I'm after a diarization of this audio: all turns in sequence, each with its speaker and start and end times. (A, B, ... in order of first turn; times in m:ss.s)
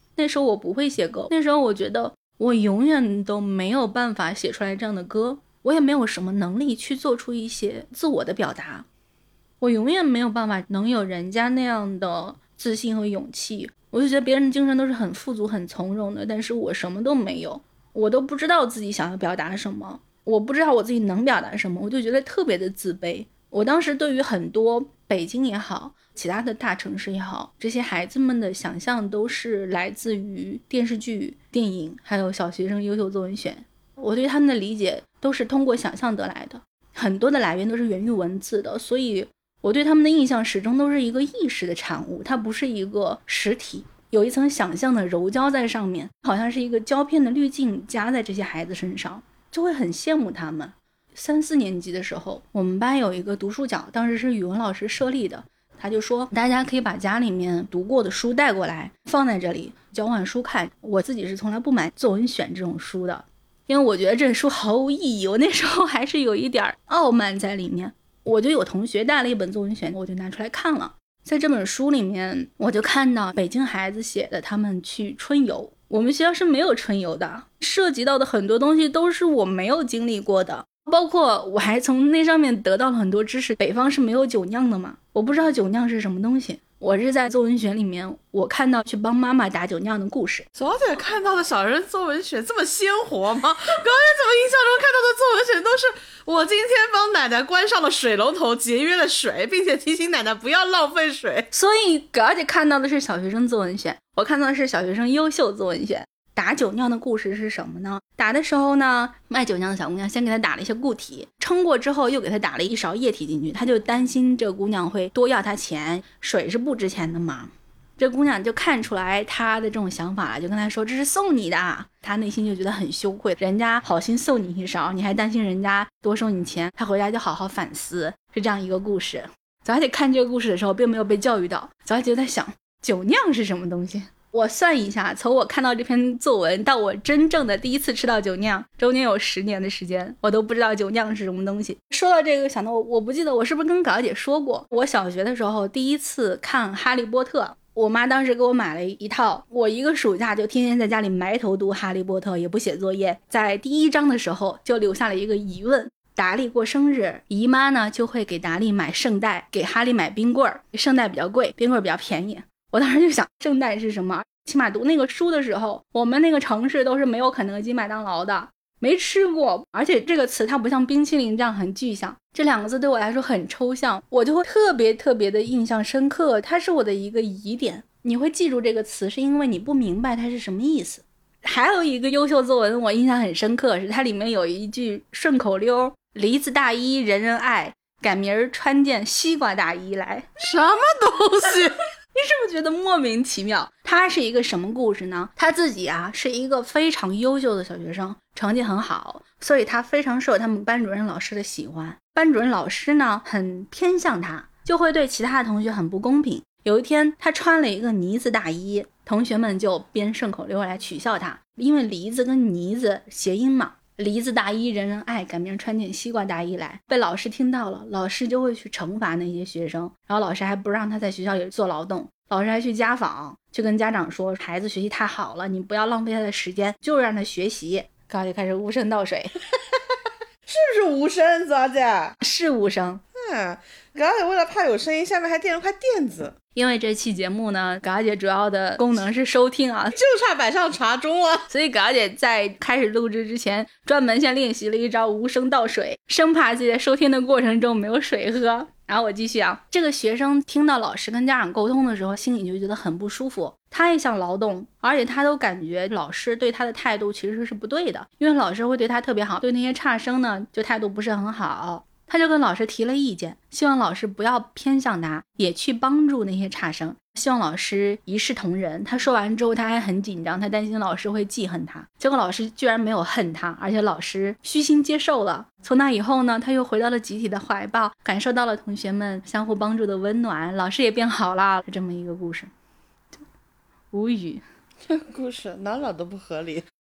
0:00.2-0:08.8 A
0:09.6-1:30.5 A
1:30.6-1:41.5 B
1:41.5-3:10.3 A
3:10.4-3:11.7 B
3:12.1-3:49.3 A
3:49.5-3:49.8 B
3:50.5-3:52.2 B
3:52.2-3:53.0 A
3:53.1-3:56.3 B
3:56.5-3:59.9 A
3:59.9-4:01.5 B
4:01.5-4:42.5 A
4:43.9-4:44.4 A
4:44.9-4:46.6 B